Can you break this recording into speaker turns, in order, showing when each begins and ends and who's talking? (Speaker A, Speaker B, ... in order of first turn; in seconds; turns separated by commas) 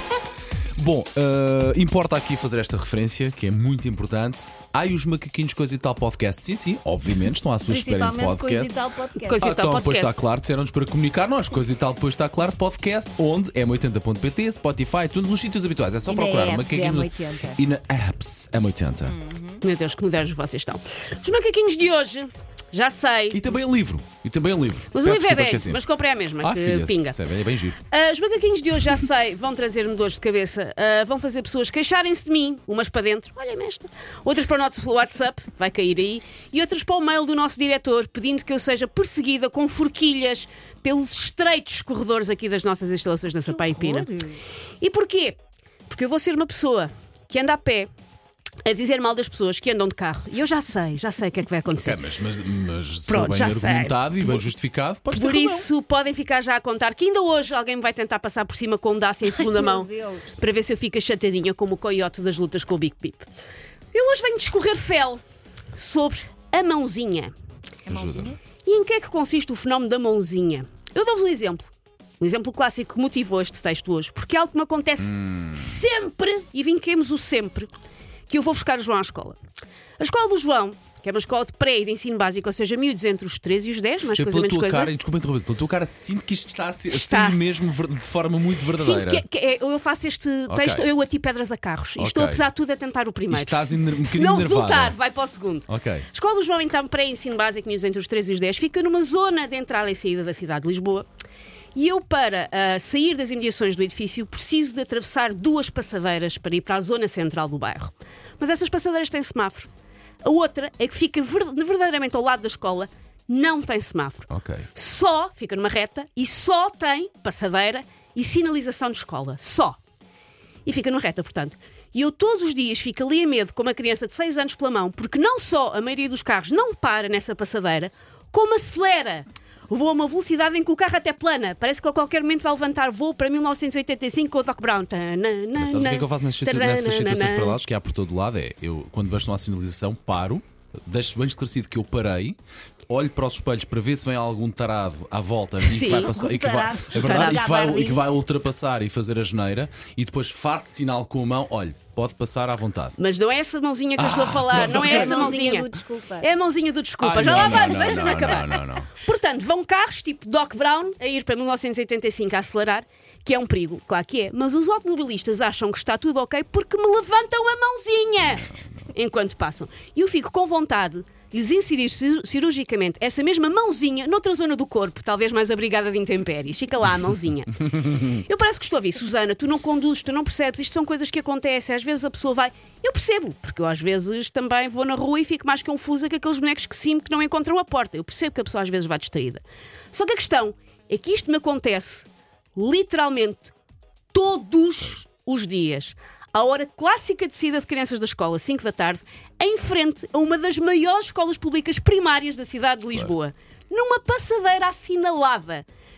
Speaker A: 0.8-8.7, Speaker B: 7.7-9.5, Speaker C: 9.2-10.2, Speaker A: 9.4-19.2, Speaker B: 16.1-17.6, Speaker B: 19.1-19.6, Speaker C: 19.6-23.4, Speaker A: 23.3-25.8, Speaker C: 24.9-27.2, Speaker A: 26.4-27.8, Speaker C: 27.9-44.1, Speaker B: 43.5-44.4, Speaker C: 44.8-45.4, Speaker C: 45.9-47.9, Speaker C: 48.6-52.0, Speaker A: 51.8-55.7, Speaker C: 53.1-54.5, Speaker C: 55.1-63.3, Speaker B: 59.4-60.3, Speaker C: 63.9-65.2, Speaker C: 65.7-67.3, Speaker B: 67.9-68.4, Speaker A: 67.9-68.3, Speaker C: 68.6-77.7, Speaker A: 75.0-75.8, Speaker C: 78.3-79.4, Speaker C: 80.0-84.9, Speaker A: 84.1-89.2, Speaker C: 86.9-87.4, Speaker C: 88.7-101.1, Speaker A: 90.5-90.9, Speaker A: 92.0-92.5, Speaker A: 93.3-95.0, Speaker A: 95.7-96.1, Speaker C: 101.8-109.7, Speaker C: 110.2-119.8, Speaker A: 114.3-114.7, Speaker C: 120.7-137.6, Speaker A: 135.6-142.4, Speaker A: 142.9-153.0, Speaker C: 145.6-146.1, Speaker B: 145.9-148.1, Speaker C: 146.9-147.5, Speaker C: 153.0-193.5, Speaker A: 154.0-155.3, Speaker B: 154.5-156.3, Speaker A: 157.0-158.9, Speaker C: 194.1-205.7